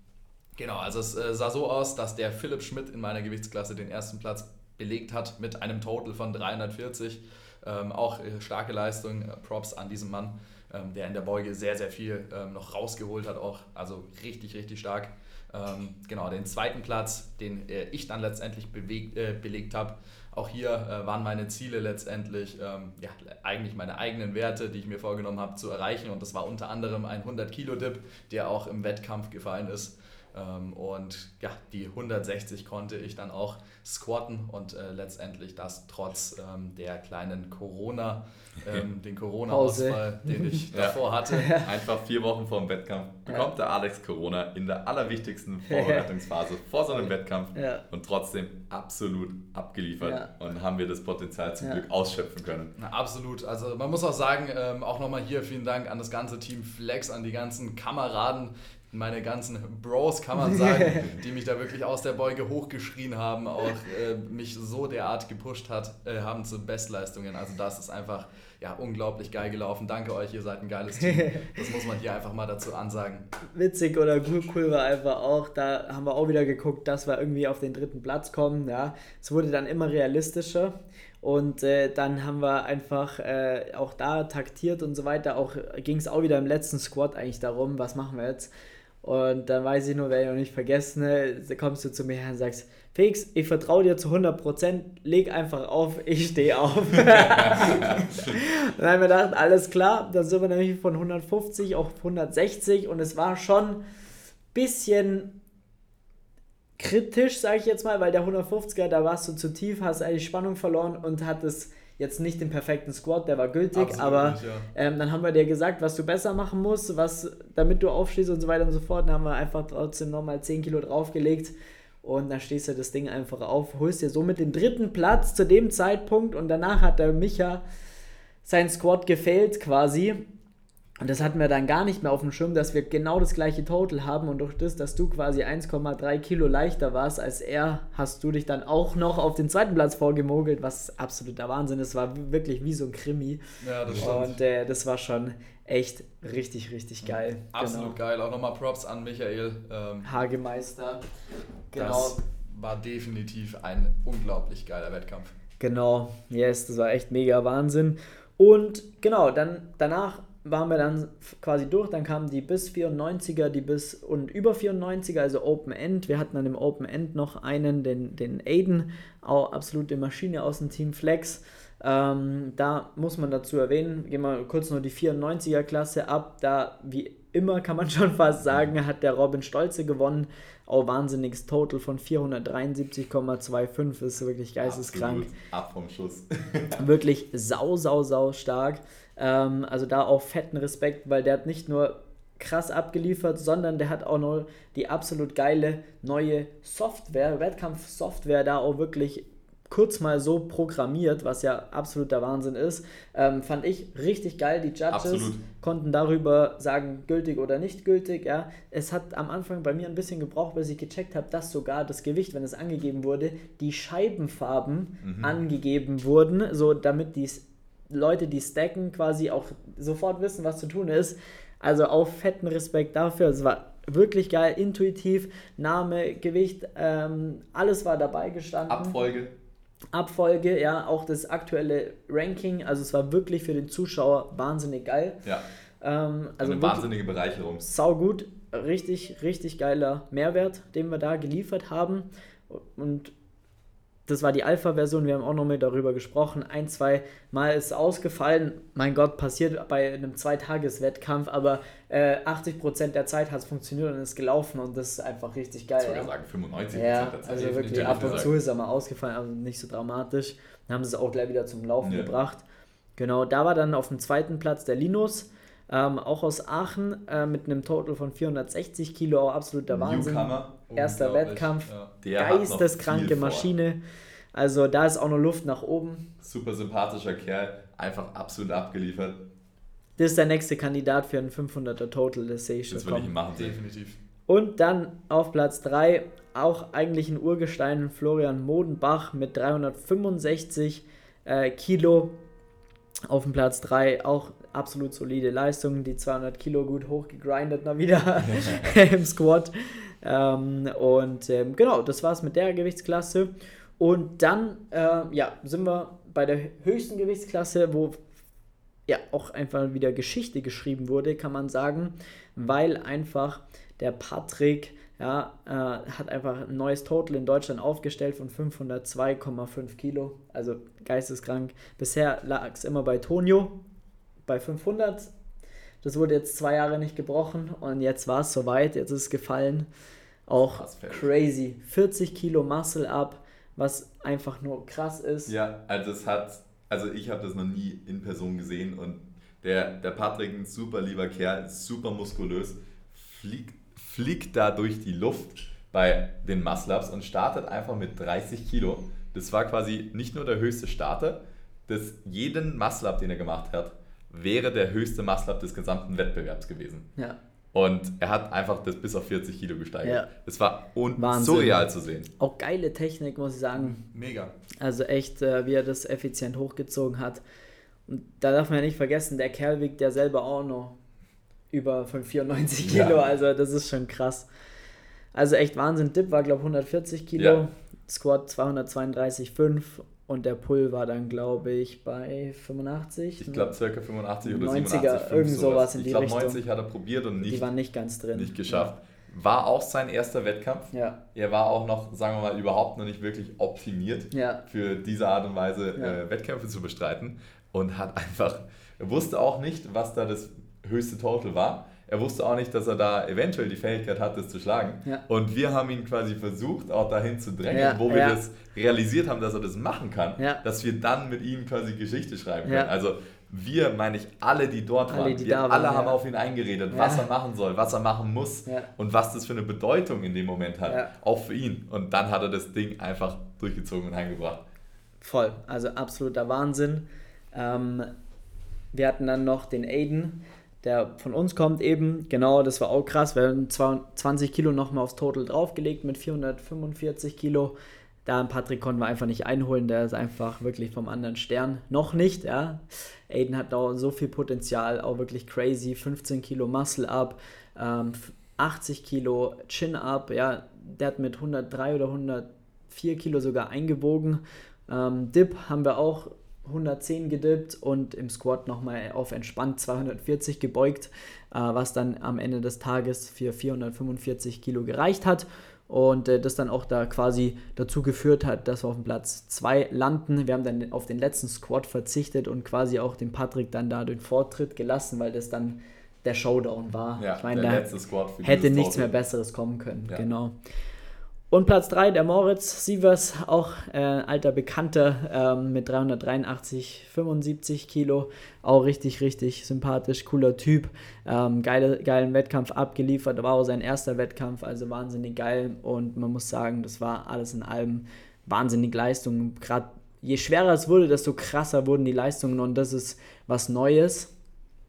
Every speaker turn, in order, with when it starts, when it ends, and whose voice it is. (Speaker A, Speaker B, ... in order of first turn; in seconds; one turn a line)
Speaker A: 0.6-41.5
Speaker B: 39.5-40.5
Speaker C: 40.7-41.0
Speaker B: 41.3-41.7
Speaker C: 41.5-52.7
Speaker B: 45.7-46.0
Speaker B: 46.9-47.8
Speaker B: 50.0-50.3
Speaker A: 52.8-73.3
Speaker B: 73.5-88.5
Speaker B: 89.0-103.8
Speaker C: 97.2-98.0
Speaker B: 104.5-105.3
Speaker B: 106.8-127.6
Speaker A: 113.7-114.7
Speaker B: 128.4-130.2
Speaker B: 131.0-143.4
Speaker A: 143.6-144.4
Speaker B: 143.9-148.0
Speaker A: 147.0-150.2
Speaker B: 150.0-151.0
Speaker B: 151.7-152.2
Speaker A: 151.8-155.3
Speaker B: 155.6-185.3
Speaker C: 184.6-186.8
Speaker B: 186.8-229.0
Speaker C: 204.9-205.4
Speaker C: 215.0-215.3
Speaker C: 228.7-229.3
Speaker B: 229.9-235.2
Speaker B: 235.8-236.9
Speaker C: 236.4-237.7
Speaker B: 237.6-243.1
Speaker B: 244.1-256.1
Speaker C: 255.8-258.3
Speaker B: 256.7-262.4
Speaker A: 257.4-258.2
Speaker C: 261.8-262.1
Speaker B: 263.0-273.8
Speaker C: 269.7-270.5
Speaker A: 270.7-271.9
Speaker C: 272.0-273.5
Speaker B: 274.3-276.1
Speaker C: 276.2-279.2
Speaker B: 280.0-283.1
Speaker C: 282.7-283.6
Speaker A: 283.3-284.0
Speaker B: 284.3-292.1
Speaker B: 293.1-308.0
Speaker B: 308.9-323.6
Speaker B: 324.3-325.1
Speaker B: 325.8-329.7
Speaker B: 330.3-335.3
Speaker C: 330.4-331.1
Speaker C: 335.3-356.9
Speaker C: 357.5-362.1
Speaker B: 359.8-360.1
Speaker B: 360.9-361.6
Speaker B: 362.2-363.8
Speaker A: 363.6-364.3
Speaker B: 364.6-367.2
Speaker B: 367.9-370.8
Speaker B: 371.5-374.3
Speaker C: 372.6-373.0
Speaker B: 375.1-383.5
Speaker C: 377.2-377.4
Speaker C: 383.2-387.5
Speaker B: 384.2-386.4
Speaker B: 387.2-388.7
Speaker C: 388.1-424.4
Speaker B: 390.7-391.0
Speaker B: 394.1-394.4
Speaker B: 407.5-408.2
Speaker B: 412.4-412.7
Speaker B: 414.9-416.0
Speaker B: 416.7-417.1
Speaker B: 420.6-420.9
Speaker B: 425.0-427.9
Speaker B: 428.7-437.5
Speaker B: 438.1-477.7
Speaker C: 477.0-478.9
Speaker B: 478.2-480.3
Speaker B: 481.3-504.1